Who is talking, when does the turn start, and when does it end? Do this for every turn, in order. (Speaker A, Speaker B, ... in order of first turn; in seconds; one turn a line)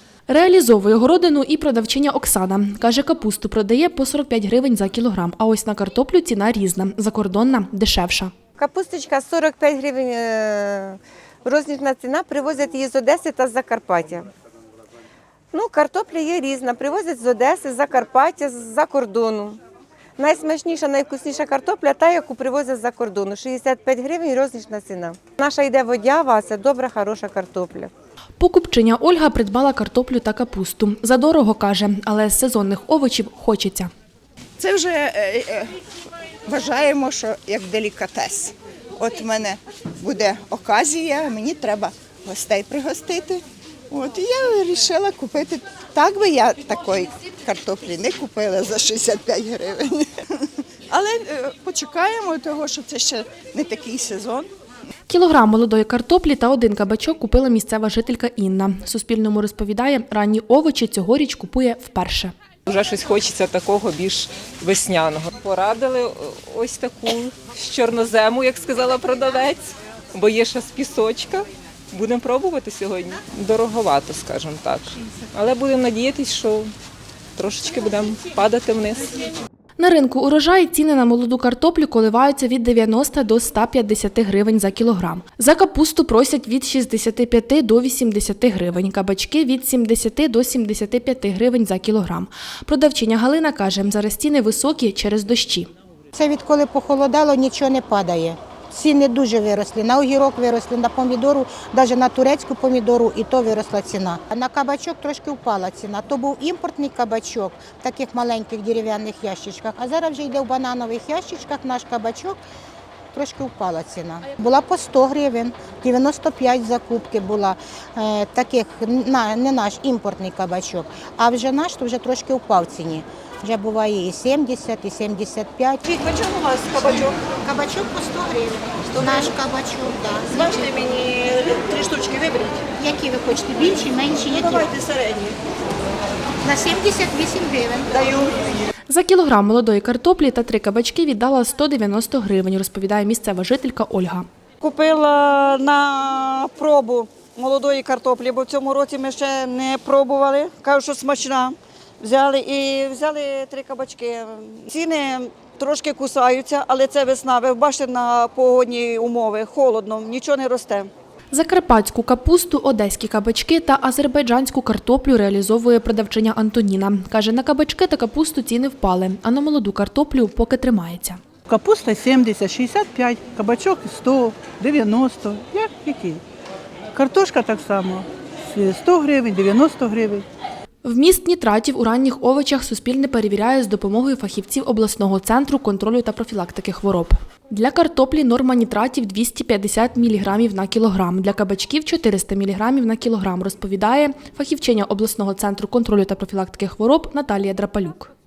Speaker A: 0.3-8.3
Speaker B: 8.6-14.3
Speaker B: 15.5-19.6
Speaker B: 20.2-27.9
Speaker A: 28.4-33.9
Speaker C: 34.6-35.7
Speaker C: 36.5-54.5
Speaker A: 55.1-62.3
Speaker D: 62.7-76.7
Speaker D: 77.3-79.2
Speaker A: 79.8-95.7
Speaker E: 96.1-112.4
Speaker E: 113.1-125.9
Speaker F: 125.9-127.1
Speaker E: 126.7-130.7
Speaker F: 130.3-132.6
Speaker E: 132.8-134.7
Speaker F: 134.4-135.3
Speaker E: 136.4-138.2
Speaker A: 138.9-144.3
Speaker F: 144.6-160.9
Speaker A: 161.3-171.2
Speaker G: 171.5-176.2
Speaker G: 176.9-180.2
Speaker A: 180.8-198.1